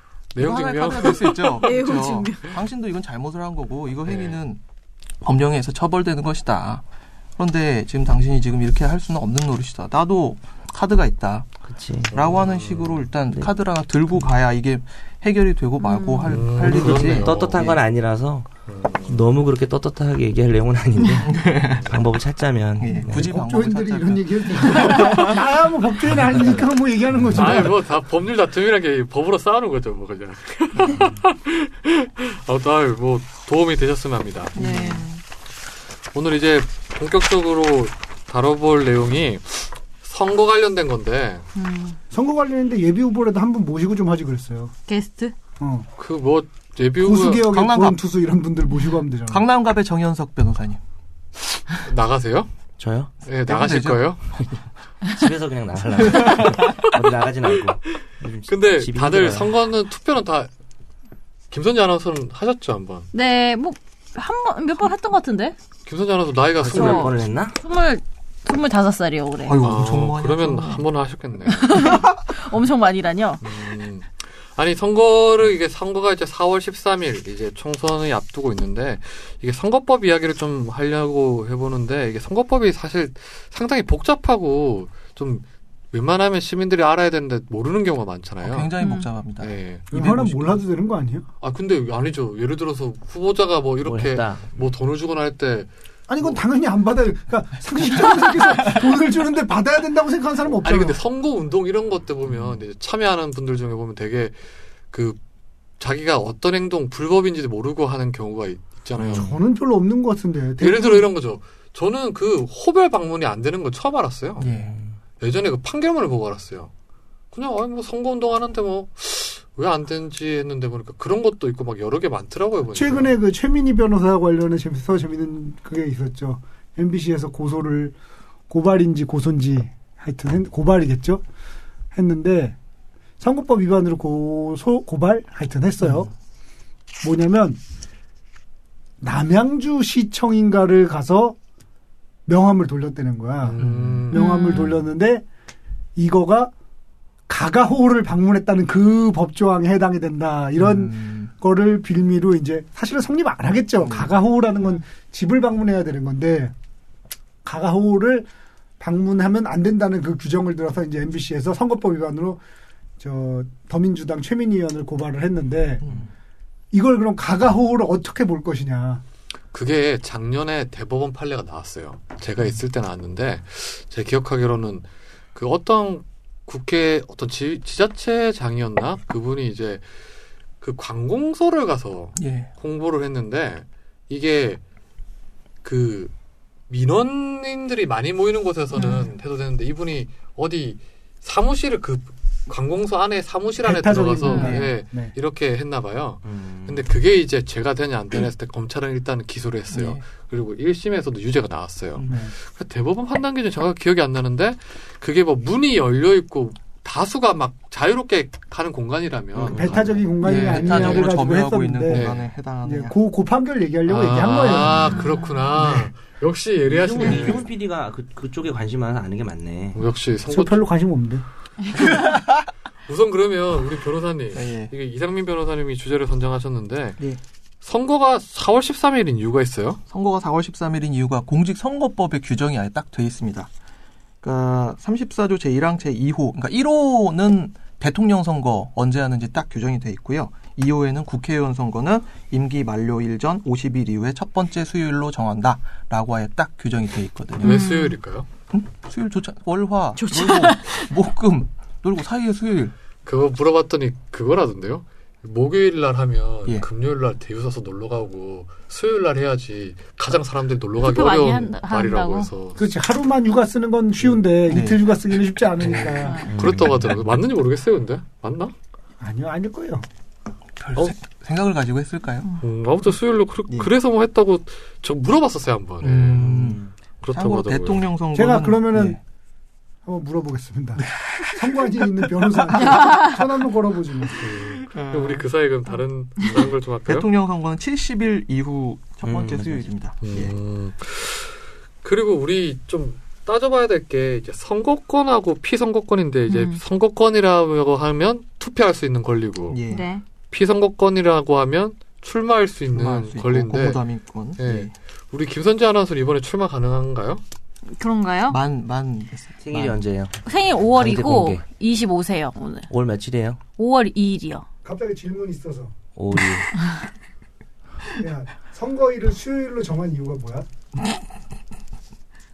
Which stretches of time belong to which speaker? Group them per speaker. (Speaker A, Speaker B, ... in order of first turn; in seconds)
Speaker A: 0.3-1.8, 4.1-4.4, 12.1-13.1, 16.2-17.8, 18.7-19.3, 21.7-22.0, 27.3-34.5, 36.1-41.5, 46.0-47.5, 51.8-52.5, 53.2-54.3, 58.5-60.5, 61.5-63.1, 65.9-67.2, 69.6-72.0, 73.4-88.7, 89.4-89.8, 91.4-95.7, 100.6-104.4, 104.9-105.2, 105.8-109.4, 110.6-114.5, 115.2-116.7, 117.3-123.2, 143.4-144.2, 169.5-179.8, 180.6-184.6, 185.6-186.1, 186.7-211.3, 211.9-212.3, 213.9-217.4, 219.8-220.6, 222.9-227.0, 227.6-229.8, 247.4-248.3, 253.1-262.6, 265.6-268.5, 272.4-276.4, 277.0-277.9, 284.2-287.1, 290.0-299.6, 300.3-303.8, 304.4-307.2
Speaker B: 0.4-4.6, 5.2-6.8, 7.4-11.5, 12.1-17.8, 21.2-22.0, 22.8-25.4, 30.8-31.1, 34.6-35.0, 47.4-48.0, 49.3-50.8, 53.5-54.5, 56.2-56.5, 69.5-70.8, 88.4-90.6, 102.3-102.6, 114.4-114.8, 143.6-144.1, 150.6-151.3, 153.8-154.1, 182.2-182.5, 194.4-194.7, 199.7-200.0, 210.2-212.9, 221.8-222.5, 224.3-224.7, 229.9-233.5, 234.2-247.6, 248.5-252.7, 264.5-264.8, 270.6-272.3, 275.8-276.6, 277.1-279.0, 280.9-282.8, 284.2-285.2, 286.9-290.3, 299.5-299.9, 302.7-304.7, 308.3-309.8
Speaker C: 1.5-2.6, 15.8-16.4, 24.8-25.2, 34.5-35.2, 41.5-42.0, 44.9-45.3, 63.1-65.5, 66.7-69.6, 71.5-73.5, 88.8-89.1, 144.1-144.8, 188.8-189.1, 194.2-194.6, 214.9-215.6, 221.7-222.0, 247.4-248.0, 250.0-250.9, 260.8-262.3, 266.0-266.4, 282.6-283.2, 296.3-296.6, 299.7-300.0, 307.8-308.4, 310.2-312.7, 313.6-314.4
Speaker D: 11.6-12.2, 16.6-18.5, 19.0-23.3, 52.8-53.1, 55.1-59.5, 66.6-67.6, 93.8-94.5, 114.4-115.0, 196.2-196.9, 209.4-210.0, 216.7-219.8, 266.3-266.9, 276.1-276.7, 289.0-289.7, 309.4-311.4, 312.7-313.4, 316.0-316.5
Speaker E: 23.1-27.8, 42.1-44.7, 45.6-45.9, 47.0-49.5, 89.9-91.3, 96.1-101.0, 109.1-111.1, 122.7-128.0, 128.5-131.2, 131.9-132.6, 133.2-136.1, 137.0-137.6, 139.0-141.4, 142.3-145.2, 146.0-146.5, 147.3-156.5, 157.4-158.3, 158.8-162.4, 163.0-165.8, 166.7-169.0, 193.6-195.1, 202.1-202.3, 209.4-212.1, 212.6-215.0, 220.3-221.2, 262.6-266.3, 269.0-269.9, 278.1-279.0, 279.9-284.3, 314.6-315.7, 318.0-320.5